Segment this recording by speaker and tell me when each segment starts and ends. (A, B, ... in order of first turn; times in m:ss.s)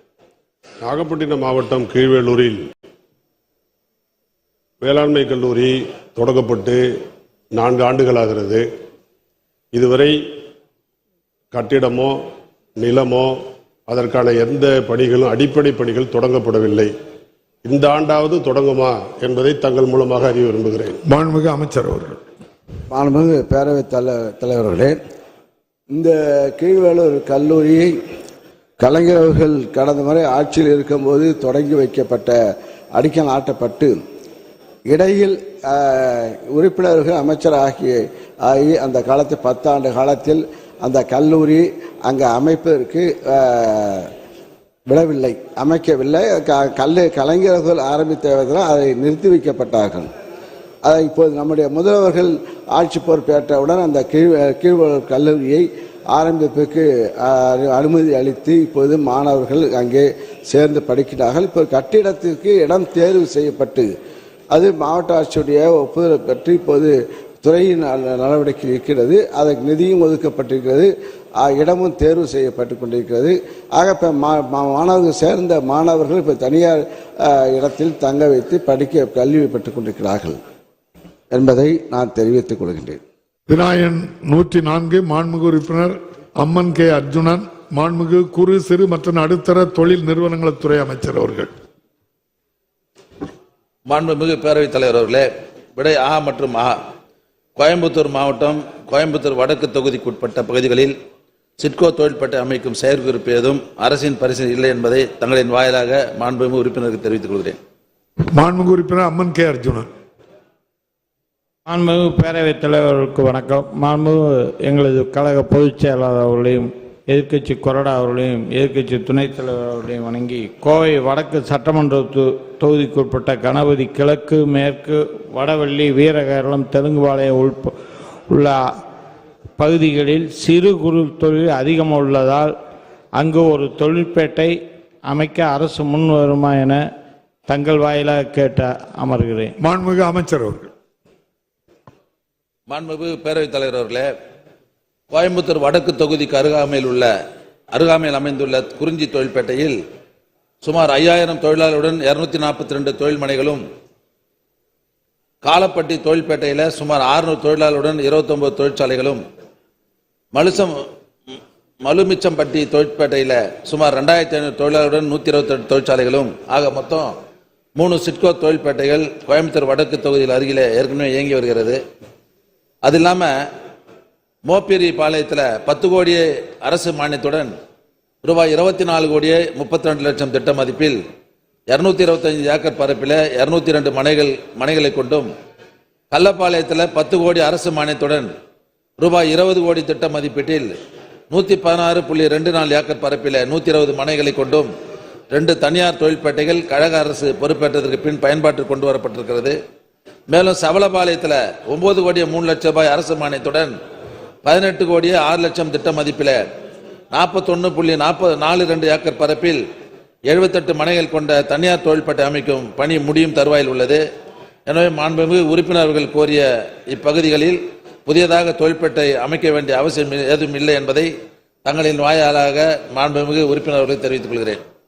0:00.8-0:02.6 A
0:04.8-0:06.8 A
0:07.5-0:08.6 A
0:09.7-0:10.2 A
0:11.5-0:12.2 A
0:12.8-0:13.4 A
0:13.9-0:16.9 A
0:17.6-0:21.0 A
0:21.0-0:22.2 B
0:22.9-0:25.0 C
0:25.9-0:27.9 C
0:28.8-0:32.4 C
0:32.9-0:34.0 C
0:34.9-0:44.1 C
0:44.9-0:50.1 C
0:50.8-1:03.9 C
1:04.5-1:20.4 C
1:21.3-1:23.0 C
1:23.5-1:31.5 B
1:33.9-1:36.8 D
1:37.6-1:40.9 D
1:41.6-1:47.6 D
1:48.3-1:49.9 B
1:51.7-2:07.7 E
2:08.3-2:08.6 E
2:09.6-2:12.5 E
2:13.2-2:14.5 E
2:15.1-2:16.8 E
2:17.5-2:19.5 E
2:19.6-2:20.7 B
2:22.7-2:24.1 D
2:25.1-2:27.1 D
2:27.7-2:29.8 D
2:30.6-2:33.6 D
2:35.4-2:39.2 D
2:40.3-2:40.7 D
2:41.8-2:47.1 D
2:47.8-2:51.8 D
2:52.8-2:53.3 D
2:54.5-2:57.5 D
2:58.2-3:01.0 D
3:01.7-3:05.3 D
3:06.1-3:08.3 D
3:09.0-3:10.7 D
3:11.3-3:14.7 D
3:15.3-3:19.6 D
3:20.3-3:23.7 D
3:24.4-3:26.4 D
3:27.1-3:29.6 D
3:30.3-3:34.0 D
3:34.7-3:41.1 D
3:41.6-3:44.6 D